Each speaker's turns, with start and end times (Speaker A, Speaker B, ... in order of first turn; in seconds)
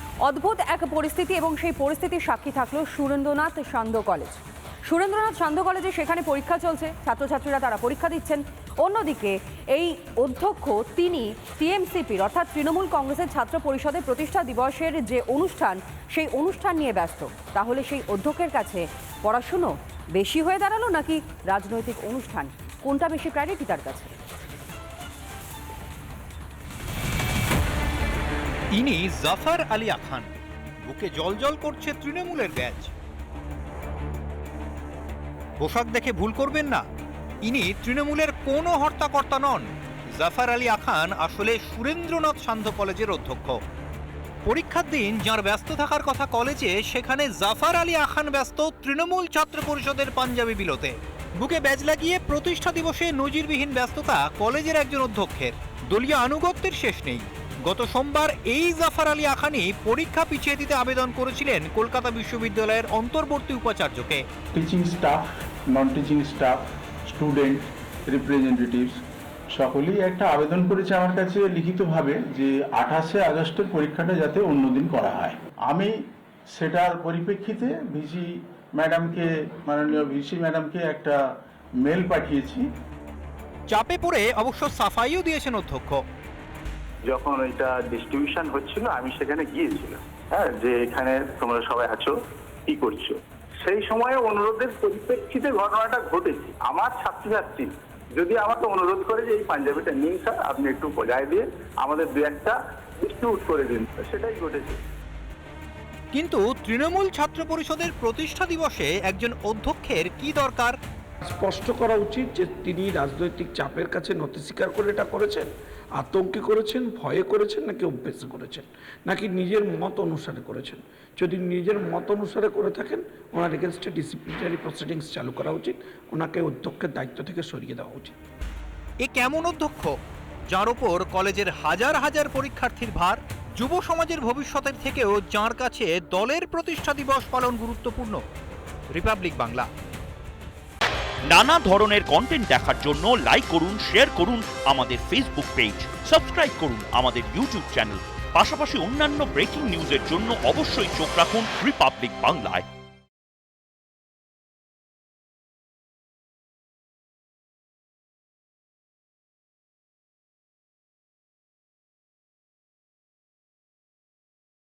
Speaker A: 0.2-24.1
Speaker B: 28.7-30.3, 30.8-32.9, 35.6-36.9, 37.4-43.6, 44.5-64.3, 83.7-86.0, 106.1-110.8, 129.0-129.9, 130.5-138.2, 138.9-139.7
Speaker C: 64.5-81.2, 81.8-82.7
Speaker D: 87.1-104.8
Speaker E: 111.2-128.2
Speaker F: 141.3-152.7